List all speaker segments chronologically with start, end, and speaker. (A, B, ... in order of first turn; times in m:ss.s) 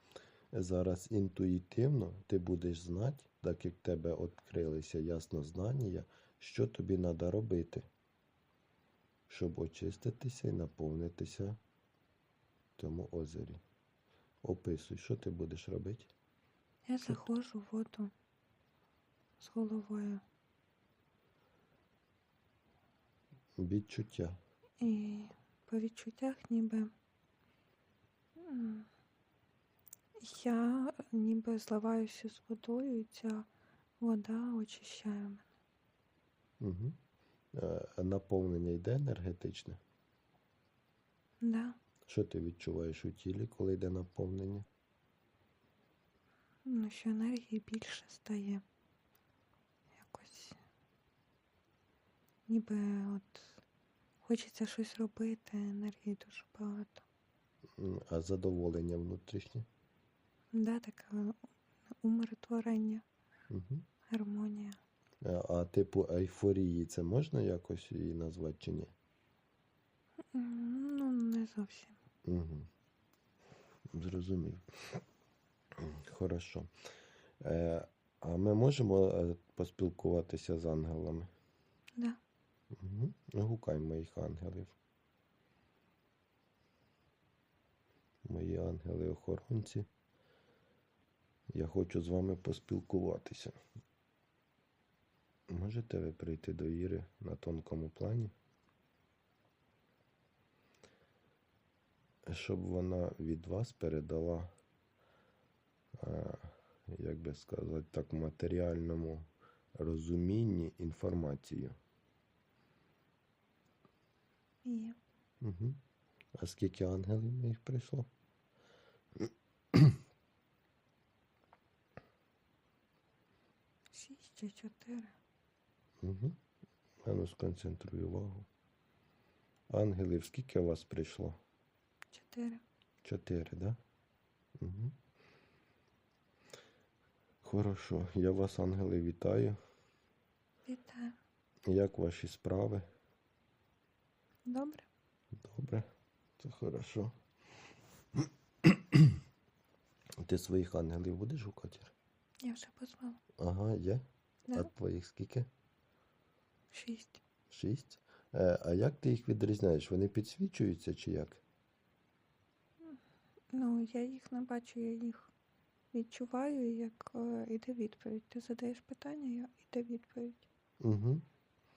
0:00.5-0:07.9 A
0:09.3-0:11.6 A
0:12.8-0:13.6 A
0:14.4-0:16.1 A
0:16.9-0:18.1 B
0:19.4-0:20.2 B
0:23.6-0:24.4 A
0:24.8-0:26.9 B
0:28.4-0:28.9 B
0:30.2-0:33.5 B
0:34.0-0:35.4 B
0:36.6-0:37.0 A
0:37.5-0:39.8 A
0:41.4-0:41.8 B
0:42.1-0:44.6 A
0:46.6-0:48.6 B
0:50.0-0:50.6 B
0:52.5-0:53.6 B
0:54.2-0:57.0 B
0:57.8-0:59.6 A
1:00.5-1:01.4 B
1:02.0-1:03.0 B
1:03.5-1:03.8 A
1:04.1-1:04.8 B
1:05.2-1:08.9 A
1:10.3-1:12.0 B
1:12.2-1:12.7 A
1:13.9-1:14.6 A
1:15.8-1:16.7 A
1:17.4-1:21.3 A
1:22.7-1:24.7 A
1:28.2-1:29.9 A
1:31.5-1:33.6 A
1:35.5-1:38.3 A
1:42.3-1:44.5 A
1:46.0-1:51.8 A
1:54.6-1:55.0 B
1:55.4-1:55.8 A
1:56.4-1:58.1 A
2:03.9-2:05.1 B
2:06.0-2:06.4 A
2:07.0-2:08.5 A
2:09.7-2:11.4 A
2:12.1-2:12.6 B
2:13.0-2:13.8 A
2:14.6-2:14.9 A
2:17.4-2:19.6 A
2:20.7-2:21.2 B
2:21.7-2:22.9 A
2:24.4-2:24.9 B
2:25.4-2:25.9 A
2:26.4-2:27.1 A
2:28.6-2:29.0 A
2:30.2-2:31.9 A
2:32.4-2:33.2 B
2:33.4-2:35.5 A
2:36.7-2:37.2 B
2:37.5-2:41.4 A
2:43.5-2:45.3 B
2:45.9-2:50.4 B
2:50.8-2:51.2 A